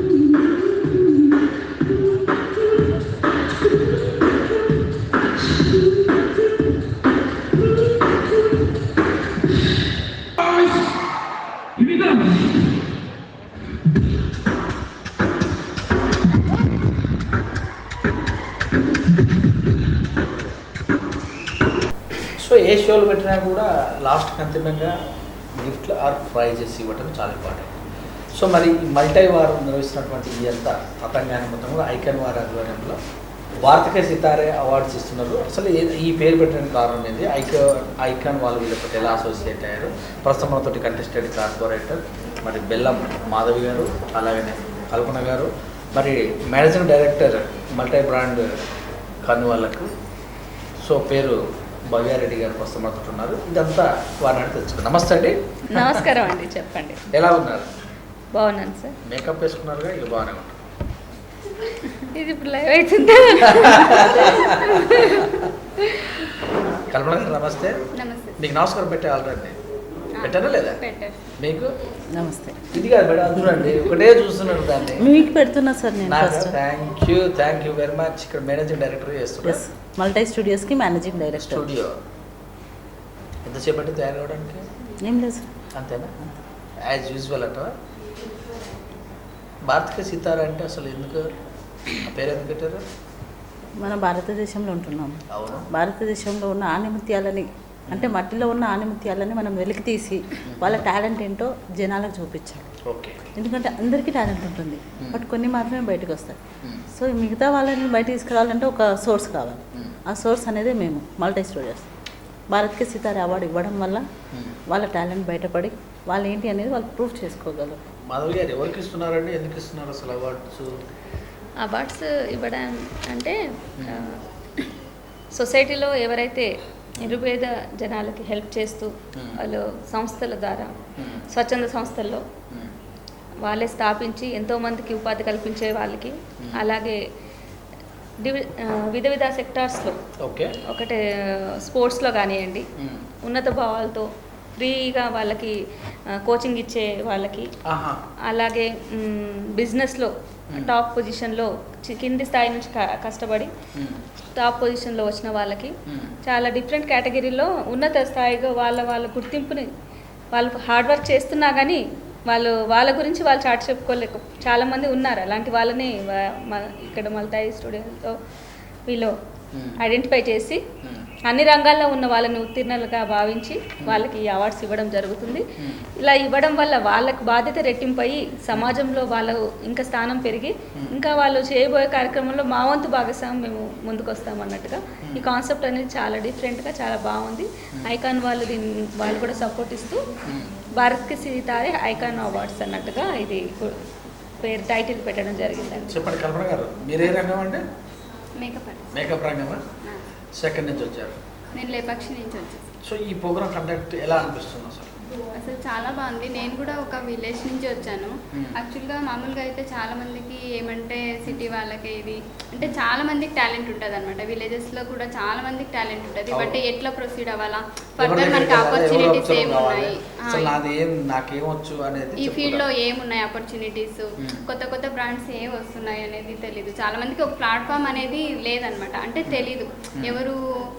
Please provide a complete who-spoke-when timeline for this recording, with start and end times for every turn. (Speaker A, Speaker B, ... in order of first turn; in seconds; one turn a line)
Speaker A: 22.4-24.9
Speaker A: 25.5-27.8
Speaker A: 28.3-33.0
Speaker A: 33.6-48.5
Speaker A: 49.2-49.9
Speaker A: 50.8-51.4
Speaker A: 51.9-56.0
Speaker B: 55.7-57.0
Speaker A: 57.1-57.7
Speaker B: 58.3-59.0
Speaker A: 59.0-60.6
Speaker B: 61.8-66.3
Speaker A: 63.5-65.5
Speaker A: 66.9-67.8
Speaker C: 67.9-68.4
Speaker A: 68.4-69.6
Speaker C: 70.2-71.2
Speaker A: 70.2-70.8
Speaker A: 71.4-71.7
Speaker D: 72.1-72.7
Speaker A: 72.7-75.1
Speaker D: 73.3-73.9
Speaker D: 75.0-76.6
Speaker A: 76.0-79.6
Speaker D: 79.4-81.7
Speaker A: 81.3-82.0
Speaker A: 83.4-84.7
Speaker D: 85.0-85.5
Speaker A: 85.7-86.1
Speaker A: 86.8-87.7
Speaker A: 89.7-91.3
Speaker A: 91.9-92.8
Speaker D: 93.8-102.7
Speaker A: 95.3-95.7
Speaker A: 97.9-98.2
Speaker A: 100.4-100.8
Speaker A: 102.8-103.3
Speaker D: 103.3-106.4
Speaker D: 106.9-111.9
Speaker D: 112.5-114.0
Speaker A: 114.3-114.6
Speaker D: 114.7-117.8
Speaker A: 118.1-120.7
Speaker B: 121.6-124.7
Speaker A: 123.8-124.0
Speaker B: 125.3-130.7
Speaker A: 131.0-131.2
Speaker B: 131.3-132.2
Speaker B: 133.4-137.0
Speaker B: 138.2-139.9
Speaker A: 140.2-140.6
Speaker B: 140.7-142.7
Speaker A: 142.8-143.1
Speaker B: 143.2-145.6
Speaker B: 146.1-147.5
Speaker A: 147.7-148.0
Speaker B: 148.3-153.5
Speaker A: 153.7-154.0
Speaker B: 154.3-155.7
Speaker A: 155.9-156.2
Speaker B: 156.2-159.7
Speaker B: 160.3-168.1
Speaker B: 168.9-169.1
Speaker A: 169.5-169.8
Speaker B: 169.8-170.6
Speaker A: 170.8-171.1
Speaker B: 171.2-175.4
Speaker B: 176.0-190.0
Speaker A: 190.3-190.5
Speaker B: 190.8-193.8
Speaker B: 194.4-196.0
Speaker A: 195.9-197.6
Speaker C: 198.4-199.1
Speaker A: 198.9-199.7
Speaker A: 200.3-201.2
Speaker C: 201.5-202.7
Speaker A: 202.8-204.9
Speaker C: 205.4-220.6
Speaker A: 216.3-216.6
Speaker A: 218.0-222.7
Speaker C: 222.2-230.4